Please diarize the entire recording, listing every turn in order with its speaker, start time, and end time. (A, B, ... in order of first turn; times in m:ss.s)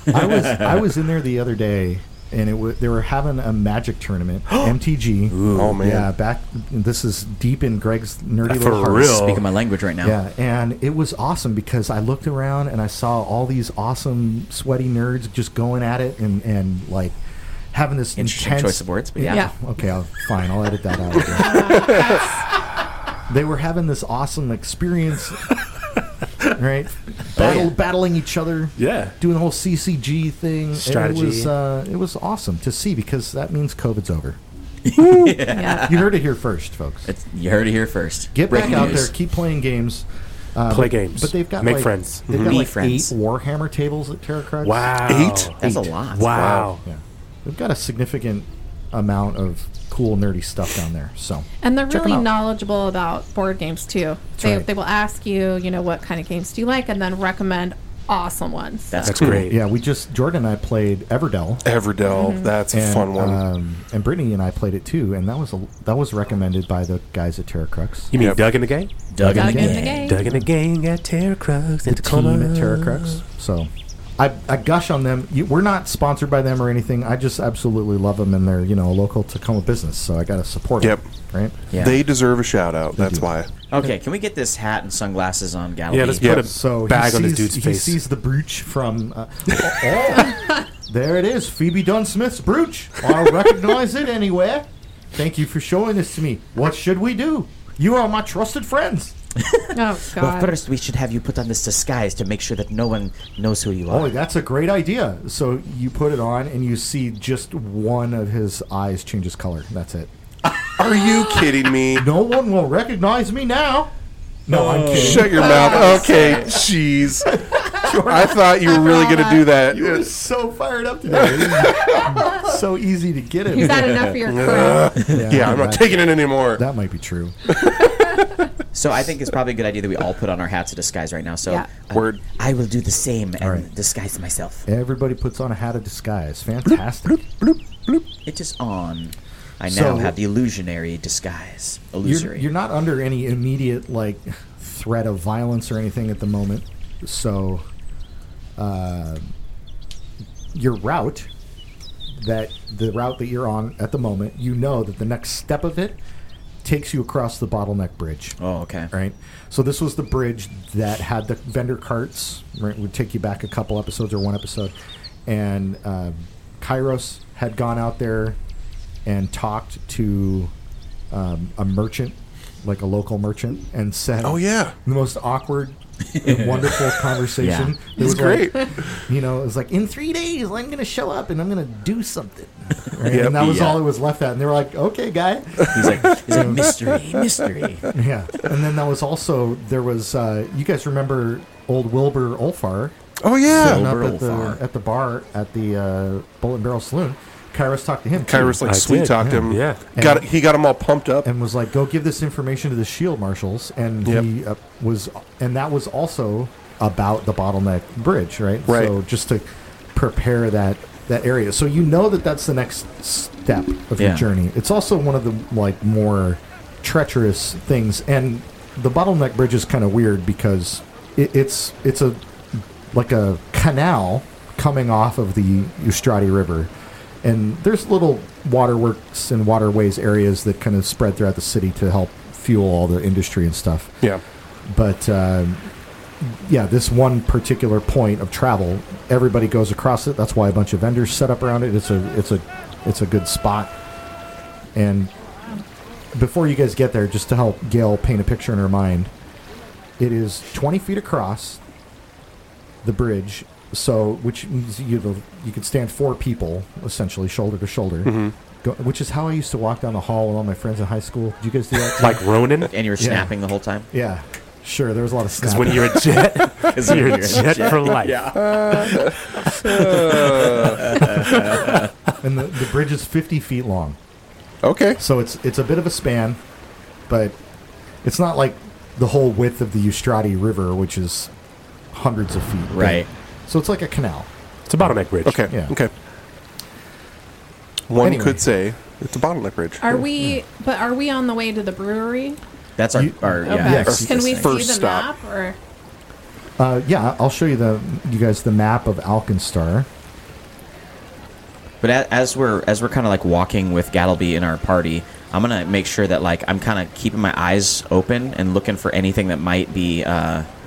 0:00.1-0:09.4 A
0:00.2-0:00.7 B
0:05.3-0:05.8 B
0:05.5-0:06.1 C
0:08.4-0:09.4 D
0:09.2-0:10.2 B
0:10.0-0:17.2 A
0:17.7-0:22.0 A
0:18.2-0:19.5 B
0:21.3-0:22.4 E
0:23.3-0:25.5 A
0:26.5-0:34.4 A
0:27.4-0:27.7 B
0:28.8-0:29.1 D
0:30.8-0:31.5 D
0:34.8-0:36.1 B
0:35.0-0:35.4 C
0:35.5-0:35.9 E
0:35.9-0:37.1 A
0:37.1-0:39.1 B
0:38.3-0:44.9 A
0:40.7-0:42.3 D
0:42.4-0:43.1 B
0:44.6-0:46.8 D
0:45.0-0:45.6 C
0:45.6-0:46.3 B
0:46.3-0:46.7 C
0:46.8-0:52.3 A
0:51.6-0:59.2 E
0:54.4-0:54.7 A
0:58.9-0:59.5 B
0:59.0-0:59.6 D
0:59.2-0:59.4 C
0:59.4-1:01.6 A
1:01.6-1:03.4 C
1:02.0-1:02.6 E
1:02.7-1:08.1 A
1:08.1-1:13.2 D
1:08.2-1:08.4 C
1:09.1-1:10.1 B
1:09.2-1:10.5 A
1:09.3-1:10.2 E
1:11.8-1:21.6 A
1:21.7-1:22.0 B
1:21.7-1:23.5 C
1:22.9-1:23.3 A
1:23.7-1:26.3 B
1:25.9-1:28.0 D
1:26.2-1:26.4 C
1:26.3-1:39.1 A
1:39.4-1:44.1 B
1:39.7-1:40.6 E
1:43.9-1:51.3 A
1:50.8-1:52.0 C
1:51.9-1:53.9 A
1:54.5-1:55.8 A
1:54.5-1:55.3 D
1:54.9-2:00.0 C
1:55.3-1:56.5 B
1:55.4-1:56.5 E
1:57.3-1:59.0 A
1:58.7-1:59.4 E
1:59.6-2:03.9 A
2:01.3-2:02.1 C
2:03.5-2:05.2 E
2:04.2-2:06.6 C
2:05.0-2:07.4 A
2:08.7-2:14.6 B
2:11.9-2:12.2 C
2:13.4-2:13.7 A
2:14.7-2:17.3 A
2:17.4-2:18.0 C
2:18.2-2:22.5 B
2:19.7-2:20.2 A
2:22.0-2:27.6 A
2:28.6-2:29.3 A
2:30.5-2:31.3 A
2:32.1-2:36.0 A
2:36.6-2:38.4 A
2:38.4-2:38.9 B
2:38.9-2:44.7 A
2:45.3-2:48.4 A
2:49.0-2:50.5 A
2:51.1-3:06.8 A
2:54.2-2:54.7 C
2:56.2-2:56.8 B
2:57.3-2:57.7 B
2:58.0-2:58.9 C
3:03.0-3:03.8 B
3:03.1-3:03.6 C
3:05.7-3:07.9 B
3:07.9-3:12.9 A
3:13.2-3:13.9 C
3:13.4-3:14.6 B
3:13.5-3:20.3 A
3:18.2-3:21.3 C
3:18.6-3:19.9 D
3:21.2-3:46.7 A
3:28.7-3:28.9 C
3:34.0-3:34.3 B
3:47.2-3:54.0 A
3:54.6-3:55.6 A
3:56.2-4:03.7 A
4:04.7-4:05.1 A
4:06.1-4:09.1 A
4:10.0-4:11.6 A
4:12.8-4:22.3 A
4:18.0-4:18.3 C
4:22.0-4:22.7 D
4:22.7-4:23.9 B
4:23.0-4:23.3 A
4:23.9-4:26.3 A
4:25.4-4:30.2 D
4:26.6-4:31.9 B
4:28.3-4:31.0 C
4:31.1-4:31.7 D
4:32.2-4:34.0 A
4:34.6-4:35.0 C
4:35.0-4:36.4 A
4:37.1-4:37.4 A
4:38.0-4:41.3 A
4:41.9-4:44.3 A
4:42.7-4:43.1 B
4:44.7-4:45.4 D
4:45.2-4:45.9 C
4:45.5-4:45.8 A
4:47.9-4:50.0 C
4:47.9-4:48.4 A
4:49.8-4:52.4 E
4:52.8-4:54.6 B
4:53.0-4:54.1 A
4:53.4-4:55.6 E
4:53.8-4:55.1 C
4:56.6-4:59.9 A
5:01.8-5:10.5 B